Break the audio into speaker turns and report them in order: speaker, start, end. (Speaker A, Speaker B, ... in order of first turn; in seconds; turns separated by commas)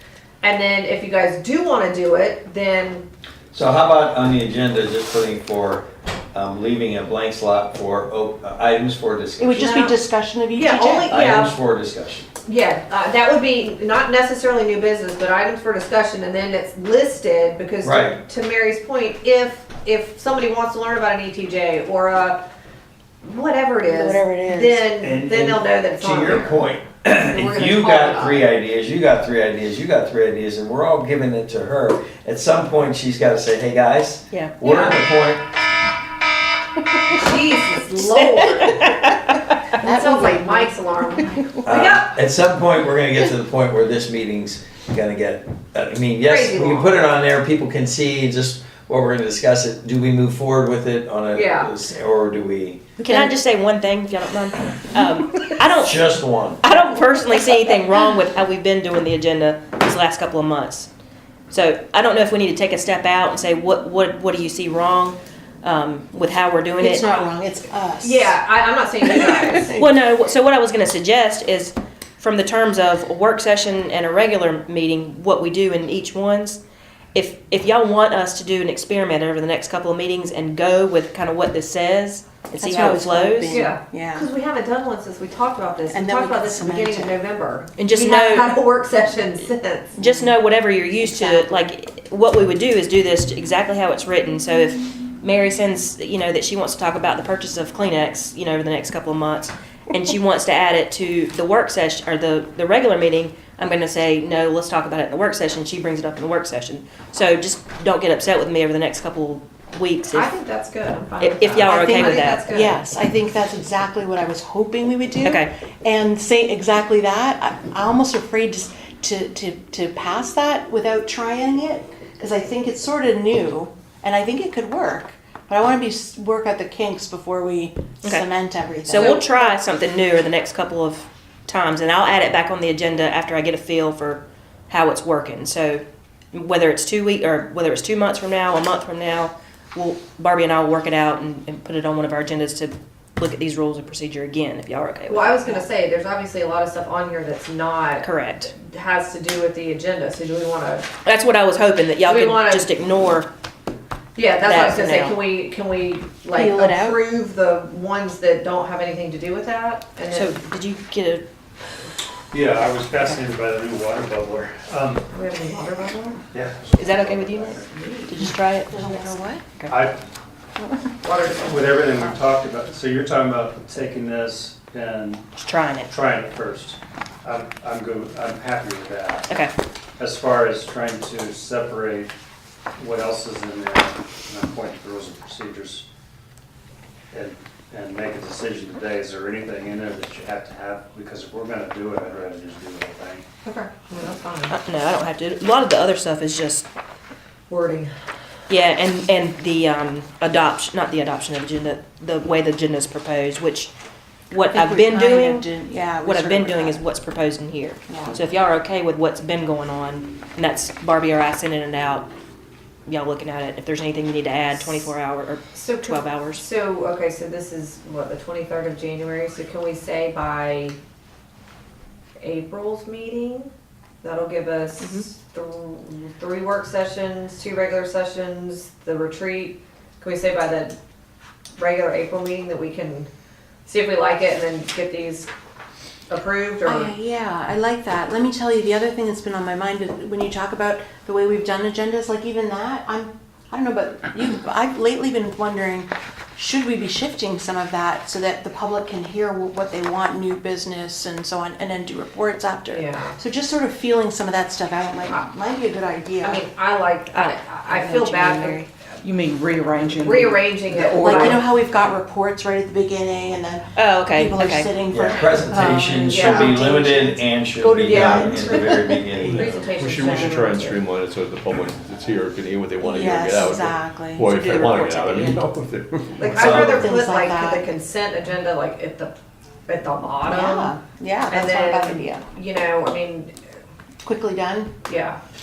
Speaker A: 0.4-3.1, Speaker B: 3.5-9.8, Speaker C: 9.4-11.1, Speaker A: 9.6-10.0, Speaker A: 10.6-11.5, Speaker B: 11.1-12.3, Speaker A: 12.4-22.4, Speaker B: 17.8-18.2, Speaker A: 23.2-26.5, Speaker C: 23.9-24.9, Speaker B: 25.0-35.4, Speaker A: 27.2-28.5, Speaker A: 34.6-35.0, Speaker A: 37.1-38.9, Speaker D: 38.0-39.4, Speaker C: 39.8-41.8, Speaker A: 39.8-42.1, Speaker B: 41.6-52.8, Speaker A: 46.2-47.0, Speaker A: 51.3-51.7, Speaker D: 53.0-56.1, Speaker B: 55.8-56.6, Speaker D: 56.6-60.9, Speaker D: 61.5-67.1, Speaker C: 66.8-68.4, Speaker A: 68.0-69.8, Speaker C: 69.0-69.9, Speaker D: 69.8-76.6, Speaker D: 77.1-83.7, Speaker C: 82.6-84.3, Speaker A: 83.5-90.0, Speaker C: 85.9-87.2, Speaker D: 87.8-88.5, Speaker C: 90.0-90.3, Speaker D: 90.0-110.3, Speaker C: 91.0-91.7, Speaker A: 110.1-112.8, Speaker D: 111.2-112.4, Speaker C: 111.6-129.3, Speaker D: 115.2-115.5, Speaker D: 128.0-145.7, Speaker A: 145.1-150.9, Speaker D: 148.0-148.5, Speaker D: 151.0-153.3, Speaker A: 152.1-152.7, Speaker A: 154.2-160.3, Speaker D: 154.4-155.2, Speaker C: 156.3-157.0, Speaker D: 160.1-161.3, Speaker E: 162.3-165.1, Speaker A: 165.1-166.2, Speaker E: 166.3-167.7, Speaker D: 166.8-169.8, Speaker A: 167.7-168.1, Speaker C: 168.7-169.4, Speaker E: 169.7-170.0, Speaker A: 171.0-171.6, Speaker E: 171.4-175.3, Speaker D: 175.4-175.9, Speaker E: 175.9-179.3, Speaker E: 180.0-182.1, Speaker E: 182.8-185.8, Speaker E: 187.1-193.2, Speaker A: 193.4-194.6, Speaker D: 194.5-196.7, Speaker A: 197.5-197.9, Speaker D: 198.5-203.7, Speaker D: 204.3-205.5, Speaker C: 204.5-206.9, Speaker D: 206.0-212.1, Speaker C: 207.9-208.2, Speaker D: 212.9-216.4, Speaker A: 215.5-220.8, Speaker A: 222.2-230.8, Speaker D: 224.8-225.1, Speaker A: 231.6-233.1, Speaker A: 233.7-235.3, Speaker A: 236.1-236.9, Speaker C: 236.7-256.4, Speaker A: 252.7-253.2, Speaker A: 256.2-258.7, Speaker D: 257.1-258.7, Speaker F: 259.0-261.4, Speaker A: 259.9-261.4, Speaker C: 260.9-270.4, Speaker D: 263.8-264.7, Speaker B: 264.9-269.4, Speaker A: 266.1-266.6, Speaker A: 267.8-270.8, Speaker G: 269.1-276.9, Speaker C: 272.8-275.4, Speaker D: 274.3-275.4, Speaker A: 276.2-279.1, Speaker C: 276.4-277.7, Speaker A: 279.7-280.8, Speaker C: 280.3-282.2, Speaker A: 281.3-283.3, Speaker C: 284.0-284.7, Speaker A: 284.9-285.2